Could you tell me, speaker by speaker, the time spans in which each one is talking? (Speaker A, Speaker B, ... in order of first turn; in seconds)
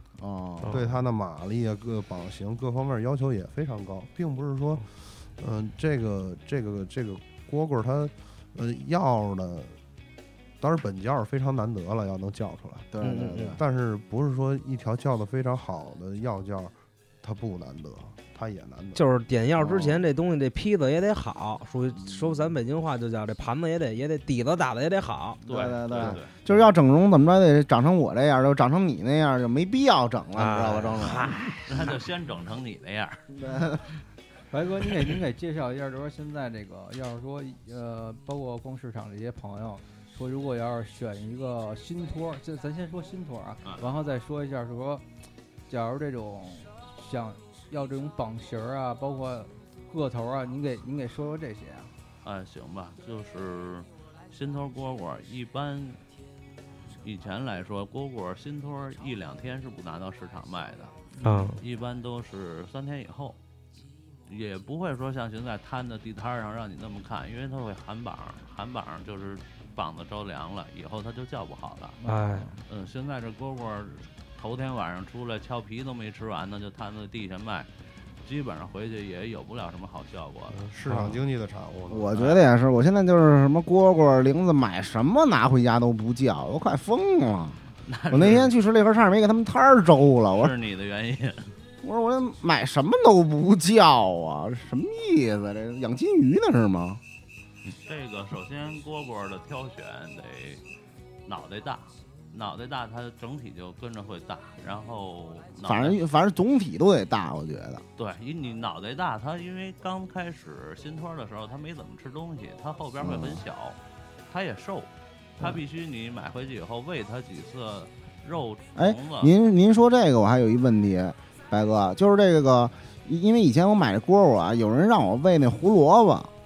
Speaker A: 0.2-0.8, 12.9-13.6, 19.6-20.0, 22.1-22.4, 25.5-31.3, 33.3-33.8, 81.9-90.5, 91.8-97.0, 105.6-107.8, 113.0-113.4, 118.7-126.3
Speaker B: 0.6-0.9, 13.0-13.6, 18.9-25.4, 30.3-31.4, 61.2-61.6, 72.1-72.5, 80.9-81.2
Speaker C: 0.7-9.8, 10.6-12.9, 13.5-19.0, 80.5-82.2
Speaker D: 25.4-26.4, 31.0-33.3, 43.6-43.9, 52.2-56.0, 57.0-63.4, 64.2-72.0, 72.7-77.7, 78.2-80.7, 82.1-82.4, 87.8-88.5, 90.3-91.5, 97.6-100.6, 101.2-106.0, 108.0-119.3
Speaker E: 34.5-45.0, 45.7-51.9, 61.1-61.5, 72.0-72.6